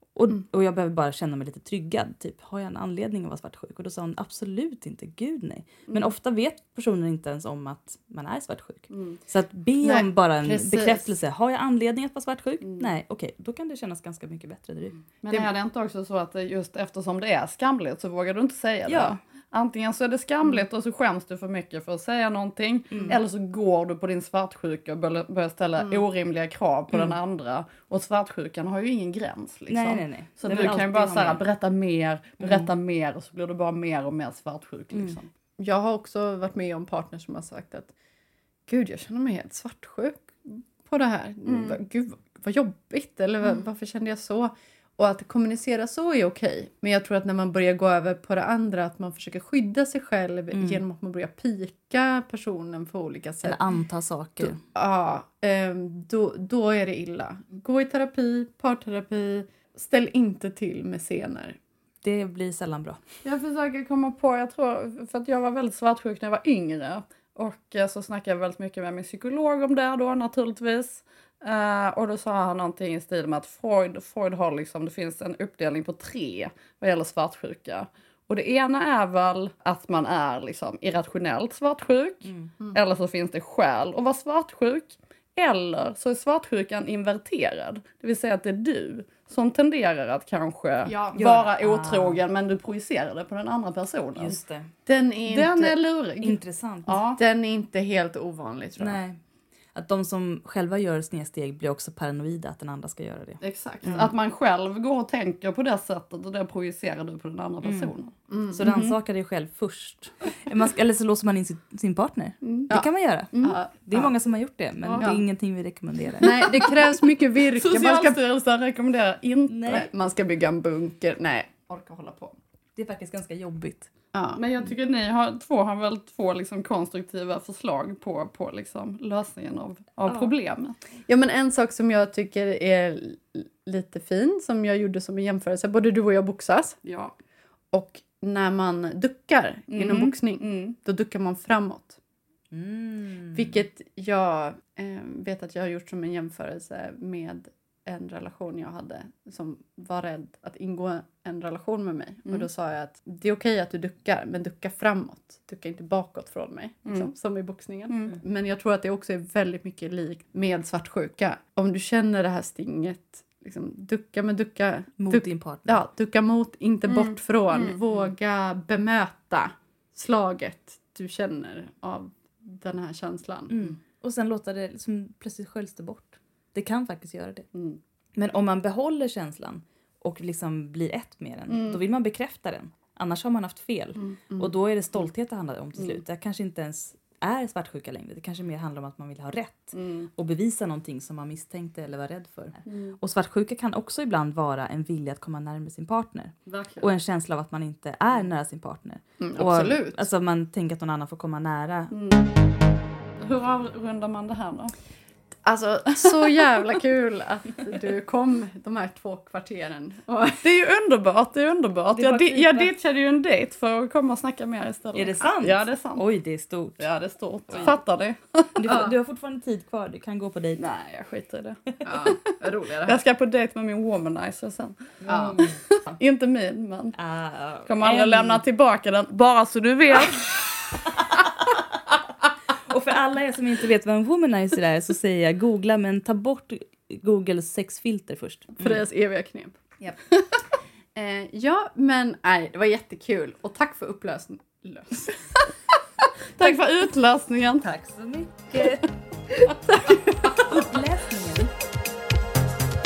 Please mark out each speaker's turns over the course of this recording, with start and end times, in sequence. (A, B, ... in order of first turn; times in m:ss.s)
0:00.2-0:15.0 A
0:08.9-0:09.2 B
0:09.8-0:11.1 C
0:15.2-0:35.3 B
0:18.9-0:19.2 A
0:22.9-0:23.2 A
0:29.7-0:31.4 A
0:32.4-0:32.7 A
0:35.6-0:37.9 C
0:38.7-0:53.6 C
0:41.5-0:41.8 B
0:50.5-0:50.8 A
0:53.4-0:54.6 A
0:54.4-1:01.6 C
1:02.0-1:03.0 A
1:03.2-1:34.4 B
1:22.2-1:22.5 A
1:30.9-1:31.2 C
1:31.1-1:32.2 A
1:34.2-1:34.7 A
1:34.9-1:35.8 C
1:35.3-1:37.2 B
1:36.2-1:37.0 A
1:37.2-1:39.0 C
1:38.8-1:39.2 A
1:39.7-1:44.0 A
1:43.4-1:48.1 B
1:47.6-1:47.9 A
1:48.3-1:48.8 C
1:48.5-1:56.4 A
1:52.4-1:52.7 B
1:52.7-1:54.1 C
1:54.8-1:55.1 B
1:56.2-1:58.2 C
1:56.2-1:56.7 B
1:57.5-1:59.9 B
1:59.5-1:59.9 A
1:59.7-2:02.4 C
2:02.8-2:03.9 A
2:04.1-2:04.4 C
2:04.3-2:10.8 B
2:11.1-2:16.8 C
2:16.8-2:17.1 B
2:17.7-2:22.0 C
2:19.7-2:20.8 B
2:22.5-2:23.4 A
2:23.3-2:53.6 C
2:37.9-2:38.2 B
2:45.0-2:45.8 A
2:53.5-2:57.5 A
2:57.5-2:57.8 B
2:58.2-3:21.9 A
3:01.5-3:01.8 B
3:09.7-3:10.1 B
3:12.7-3:13.0 B
3:16.5-3:16.9 B
3:19.2-3:20.0 C
3:21.9-3:22.3 B
3:23.2-3:24.7 B
3:25.4-3:30.4 C
3:30.4-3:36.0 B
3:31.9-3:32.7 A
3:34.9-3:36.8 A
3:36.8-3:38.9 B
3:38.6-3:40.6 A
3:40.6-3:47.0 B
3:41.8-3:43.0 C
3:45.0-3:45.6 A
3:47.0-3:48.4 A
3:47.7-3:50.3 B
3:52.7-3:58.8 A
3:58.6-3:59.5 B
3:58.6-3:59.4 C
4:01.0-4:05.5 C
4:06.4-4:07.7 B
4:07.6-4:08.9 A
4:09.5-4:10.5 B
4:10.3-4:11.5 A